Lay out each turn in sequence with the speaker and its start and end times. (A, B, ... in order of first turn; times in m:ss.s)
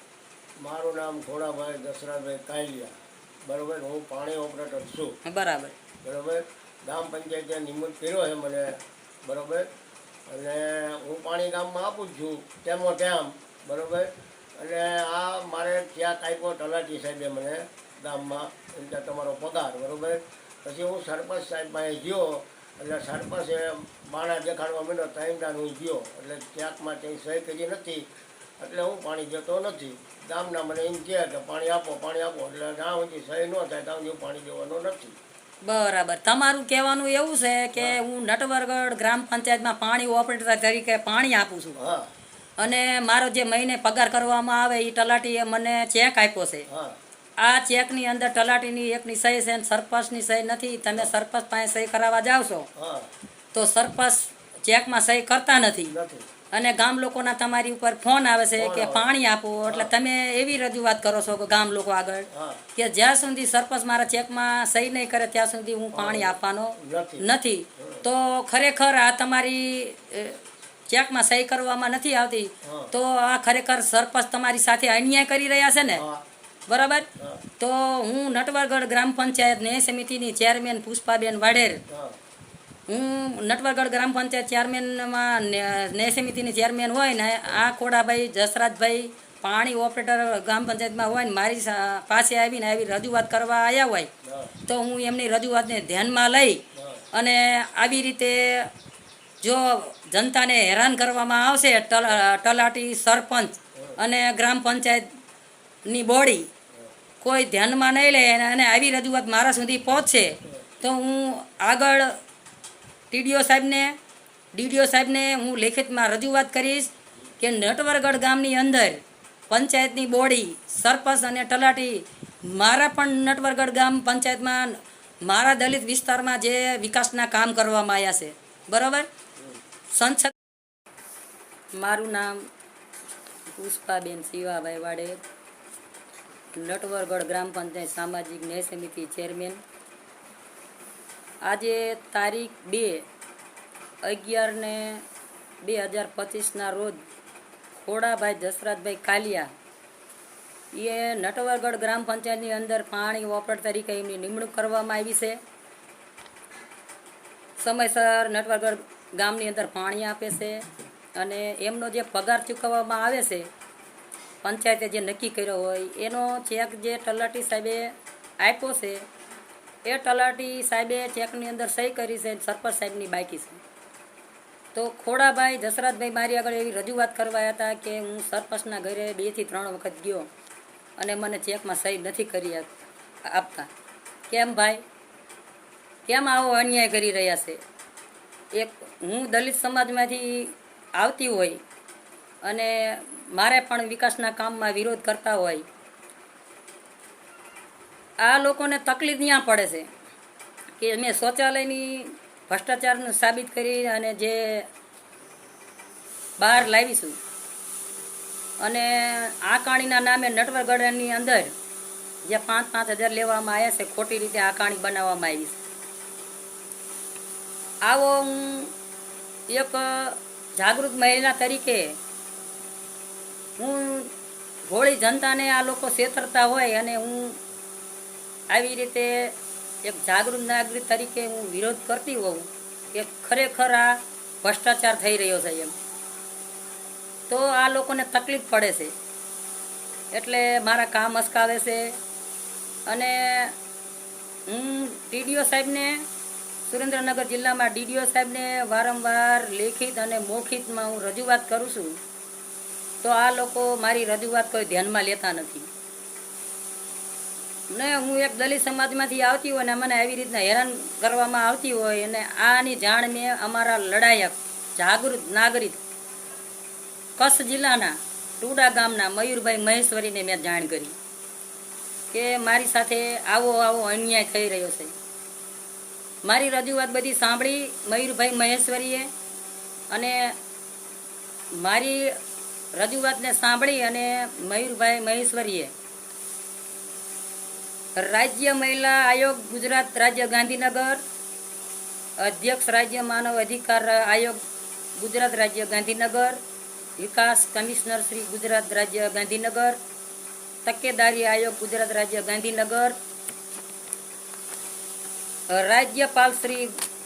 0:00.6-0:05.2 A
0:05.2-0:05.8 B
0:06.0-0:09.7 A
0:10.3-0:28.1 A
0:28.6-0:35.2 A
0:35.6-0:41.8 B
0:41.8-0:42.1 A
0:42.6-0:46.7 B
0:46.7-0:47.0 A
0:47.4-0:52.7 B
0:52.8-0:53.1 A
0:53.5-0:56.0 B
0:55.9-0:56.3 A
0:56.5-1:16.0 B
0:58.6-0:59.1 A
0:59.7-0:59.9 A
1:02.3-1:02.6 A
1:05.9-1:07.2 A
1:07.8-1:08.0 A
1:12.6-1:12.9 A
1:15.9-1:16.2 A
1:16.7-1:21.8 B
1:17.2-1:17.4 A
1:21.9-1:22.2 A
1:22.9-1:34.1 B
1:34.2-1:34.6 A
1:34.6-1:38.7 B
1:36.8-1:37.1 A
1:39.4-1:45.1 B
1:45.9-1:46.5 B
1:47.2-1:52.2 B
1:53.1-1:53.9 B
1:54.5-2:09.1 B
2:09.9-2:10.3 B
2:11.7-2:12.5 B
2:13.5-2:15.2 B
2:16.5-2:19.6 B
2:21.4-2:23.1 B
2:24.0-2:25.1 B
2:25.6-2:27.0 B
2:27.7-2:29.5 B
2:30.7-2:35.4 B
2:37.6-2:43.5 B
2:44.4-2:49.1 B
2:49.8-2:53.6 B
2:54.7-3:00.3 B
3:01.0-3:03.7 B
3:04.3-3:04.8 B
3:06.1-3:07.6 B
3:08.5-3:11.6 B
3:12.4-3:15.7 B
3:18.2-3:19.9 B
3:20.8-3:24.7 B
3:26.4-3:27.2 B
3:28.6-3:31.5 B
3:32.2-3:35.6 B
3:37.8-3:38.7 B
3:39.5-3:42.0 B
3:43.6-3:44.1 B
3:44.7-3:47.4 B
3:48.5-3:55.7 B
3:57.3-3:58.9 B
4:00.1-4:02.0 B
4:02.9-4:03.6 B
4:04.5-4:06.1 B
4:06.6-4:12.0 B
4:13.0-4:15.7 B
4:17.7-4:25.8 B
4:27.2-4:31.0 B
4:32.1-4:34.9 B
4:36.2-4:39.1 B
4:39.9-4:40.4 B
4:41.5-4:42.2 B
4:42.7-4:45.7 B
4:48.0-4:51.0 B
4:52.2-4:54.4 B
4:55.0-4:56.4 B
4:57.0-4:59.8 B
5:00.6-5:03.0 B
5:05.5-5:06.8 B